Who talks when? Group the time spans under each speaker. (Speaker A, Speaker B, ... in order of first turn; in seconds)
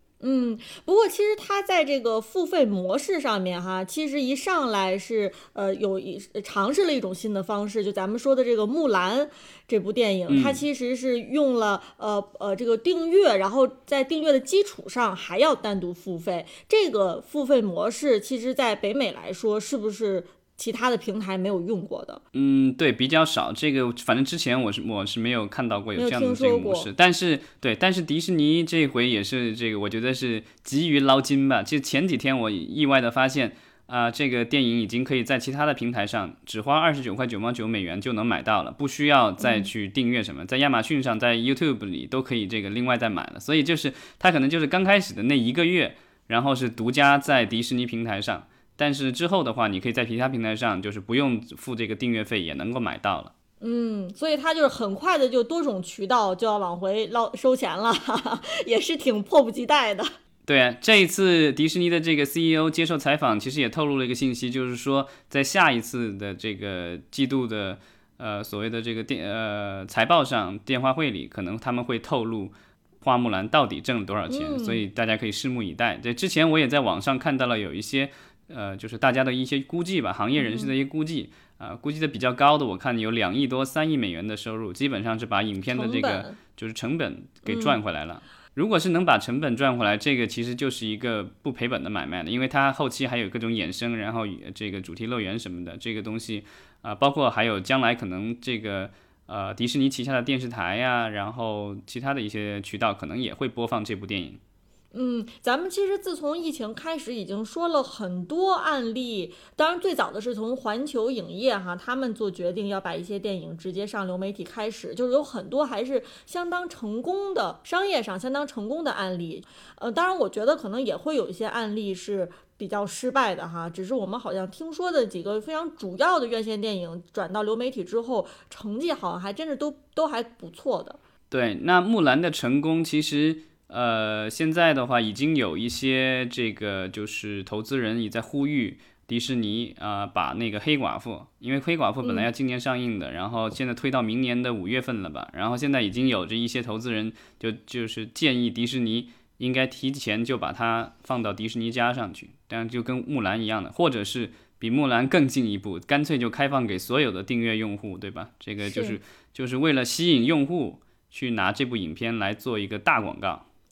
Speaker A: 0.2-22.2, 25.9-26.9, 39.4-39.7, 53.6-60.1, 74.3-74.8, 80.4-80.7, 85.7-86.4, 87.4-87.8, 104.9-131.0, 142.0-142.3, 158.6-159.0
Speaker B: 10.3-10.6, 22.3-53.3, 60.5-104.4, 131.3-163.4